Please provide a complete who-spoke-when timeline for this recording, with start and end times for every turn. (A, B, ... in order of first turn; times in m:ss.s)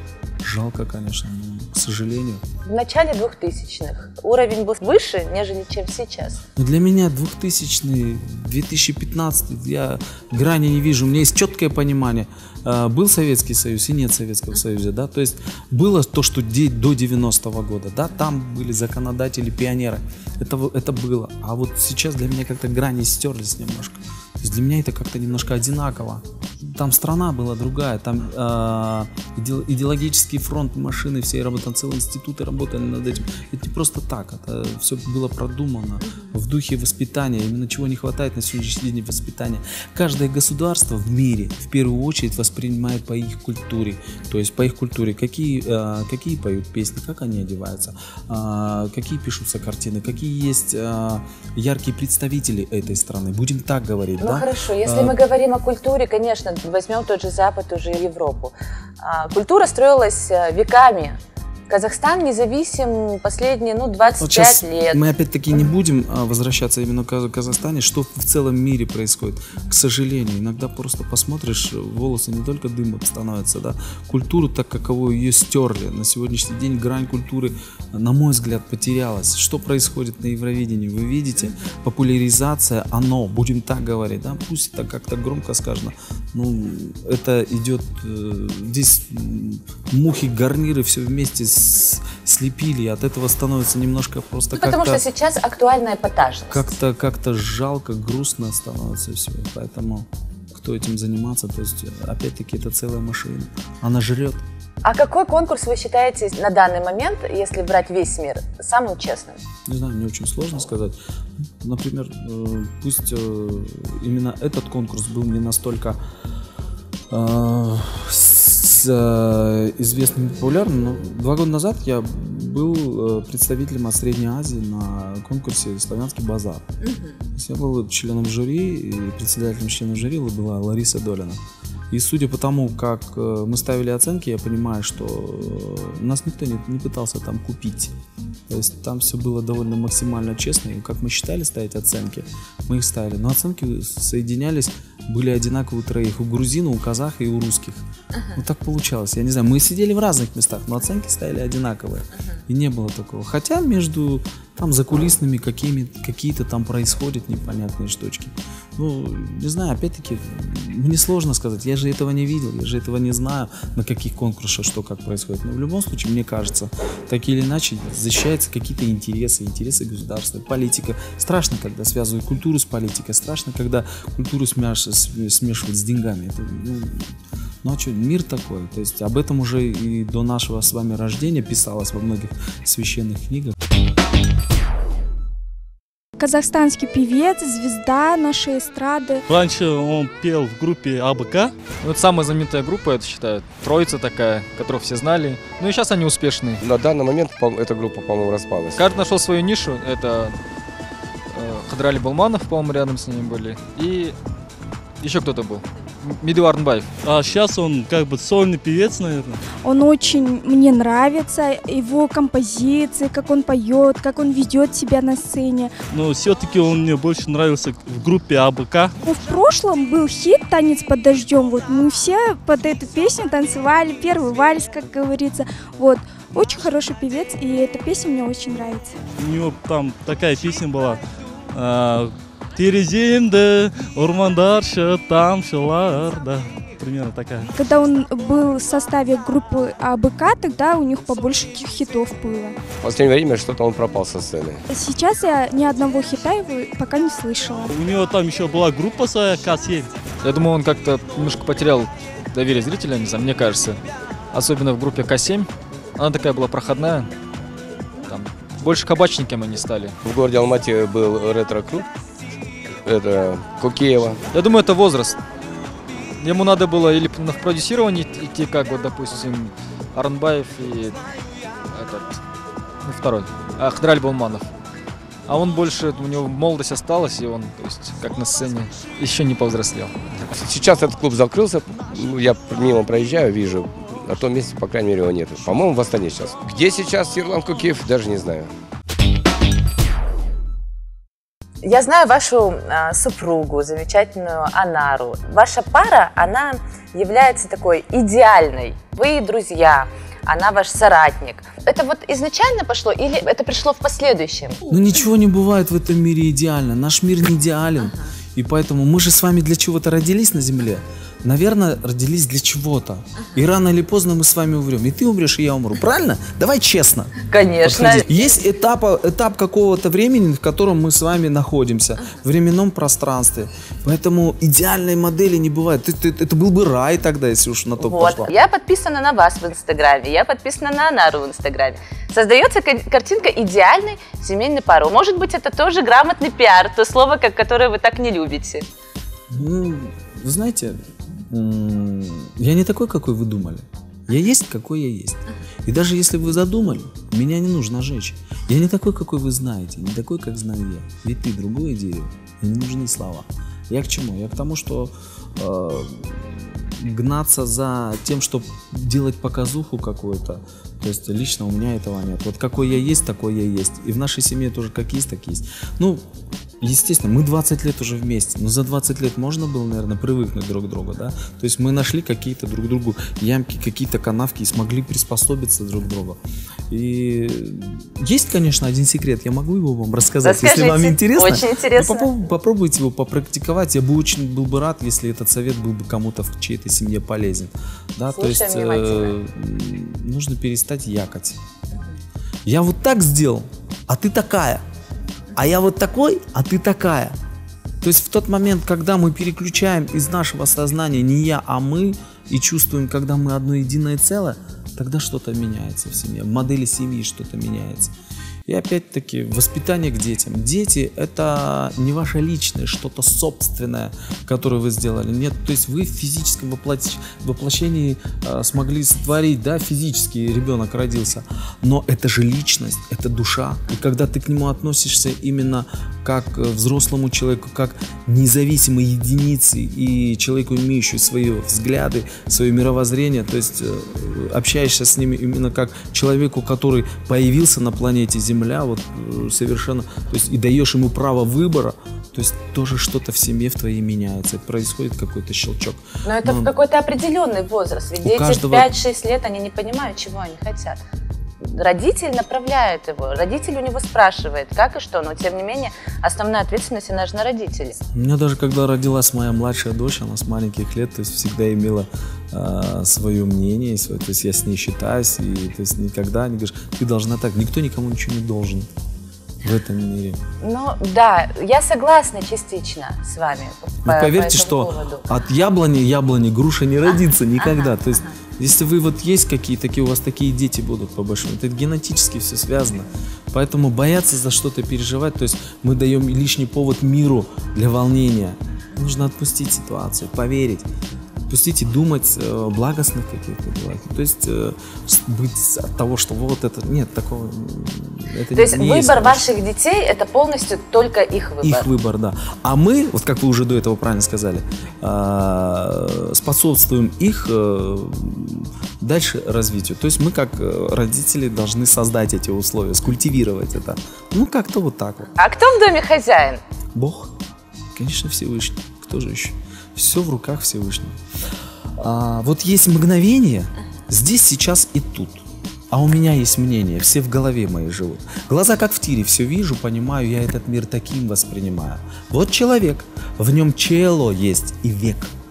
0:00.4-0:02.4 A
0:02.6-0:06.4 B
0:06.6-0:55.2 A
0:54.2-1:01.2 B
1:01.7-1:05.0 B
1:04.2-1:35.0 A
1:34.5-1:36.7 B
1:36.5-1:44.4 A
1:44.8-1:49.4 B
1:49.6-1:51.0 A
1:51.6-1:56.0 A
1:57.1-2:06.6 A
2:07.3-2:17.9 A
2:18.5-3:03.5 A
3:06.2-3:09.2 C
3:09.3-3:11.5 D
3:11.8-3:16.6 E
3:16.6-3:18.8 F
3:18.8-3:20.4 E
3:21.3-3:24.1 E
3:25.0-3:26.9 E
3:27.0-3:29.4 D
3:29.6-3:35.7 C
3:35.9-3:38.9 D
3:39.0-3:49.0 C
3:49.2-3:51.0 D
3:51.5-3:57.5 D
3:57.6-4:02.6 C
4:02.8-4:04.6 F
4:04.7-4:07.7 C
4:07.7-4:09.9 D
4:10.2-4:13.8 E
4:14.3-4:17.1 E
4:18.0-4:20.0 E
4:20.0-4:21.9 F
4:22.8-4:24.2 F
4:24.3-4:25.2 E
4:26.2-4:31.0 E
4:31.7-4:32.2 E
4:32.8-4:34.5 E
4:35.2-4:40.2 E
4:40.3-4:48.5 F
4:51.6-5:04.6 B
5:04.7-5:28.3 A
5:17.3-5:18.3 B
5:27.8-5:38.6 B
5:39.3-6:06.0 A
6:06.6-6:16.2 A
6:16.7-6:31.4 A
6:20.2-6:22.1 B
6:28.1-6:29.2 B
6:32.4-6:34.6 A
6:35.3-6:37.2 A
6:37.8-6:47.9 A
6:48.4-7:26.5 A
7:26.0-7:30.8 B
7:28.0-7:28.7 A
7:31.4-7:37.8 B
7:37.9-7:48.7 A
7:49.4-7:50.2 A
7:50.4-7:55.1 B
7:53.8-8:10.7 A
8:11.3-8:19.3 A
8:18.3-8:21.7 B
8:21.4-8:35.1 A
8:35.2-8:36.4 B
8:36.7-8:37.1 A
8:37.7-8:41.0 A
8:41.8-8:55.1 A